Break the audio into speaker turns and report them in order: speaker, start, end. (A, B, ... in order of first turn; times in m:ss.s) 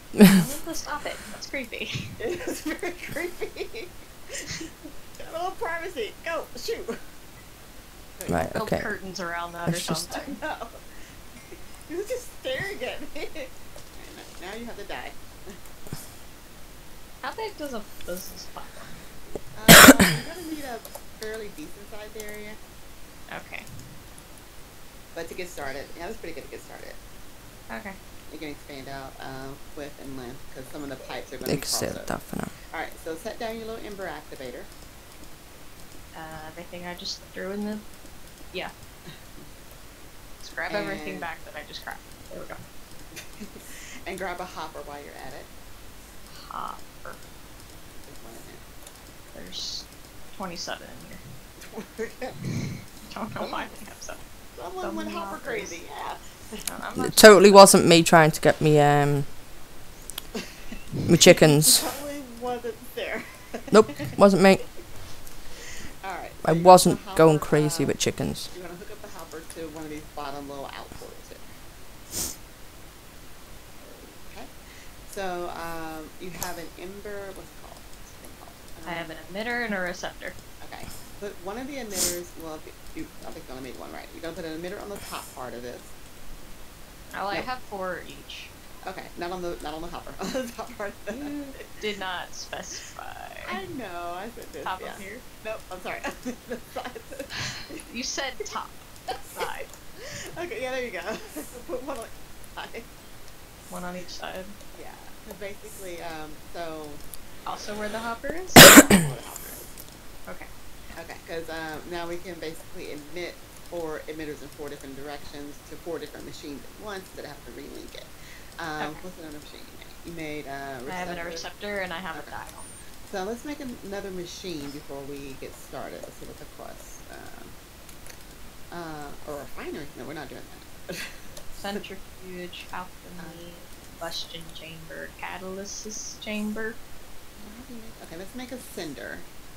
0:00.2-0:02.2 A
0:02.2-0:07.0 B
0:08.2-0:08.4 B
0:08.3-0:08.9 C
0:08.5-0:10.4 A
0:09.6-0:10.1 C
0:10.1-0:15.6 B
0:17.2-0:19.0 A
0:19.5-0:22.6 B
0:23.3-0:23.9 A
0:25.1-0:27.0 B
0:27.7-0:28.0 A
0:28.3-0:34.7 B
0:31.4-0:32.5 C
0:36.1-0:37.8 A
0:39.1-0:39.5 B
0:40.4-0:42.6 A
0:40.7-0:41.3 B
0:43.1-0:45.5 B
0:46.3-0:47.2 A
0:47.9-0:48.6 B
0:49.3-0:51.4 A
0:51.6-0:52.4 B
0:53.0-0:54.2 A
0:53.4-0:53.7 B
0:54.5-0:56.6 B
0:54.8-0:55.8 A
0:56.6-0:57.7 A
0:57.0-0:59.3 C
1:01.1-1:01.8 C
1:01.2-1:04.2 B
1:03.7-1:04.7 C
1:06.0-1:11.5 B
1:06.4-1:08.5 C
1:13.8-1:19.2 B
1:18.8-1:20.3 A
1:20.6-1:25.9 B
1:27.1-1:28.5 A
1:28.8-1:31.8 B
1:31.1-1:33.6 A
1:33.4-1:37.8 B
1:34.6-1:35.2 A
1:37.8-1:39.7 A
1:39.1-1:42.9 B
1:43.7-1:44.5 A
1:44.7-1:47.0 B
1:47.4-1:48.9 A
1:48.7-1:49.7 B
1:50.9-2:01.5 B
2:00.8-2:02.7 A
2:02.1-2:02.4 B
2:03.0-2:07.6 B
2:08.7-2:11.6 B
2:11.6-2:16.8 A
2:13.2-2:13.4 B
2:17.4-2:19.3 B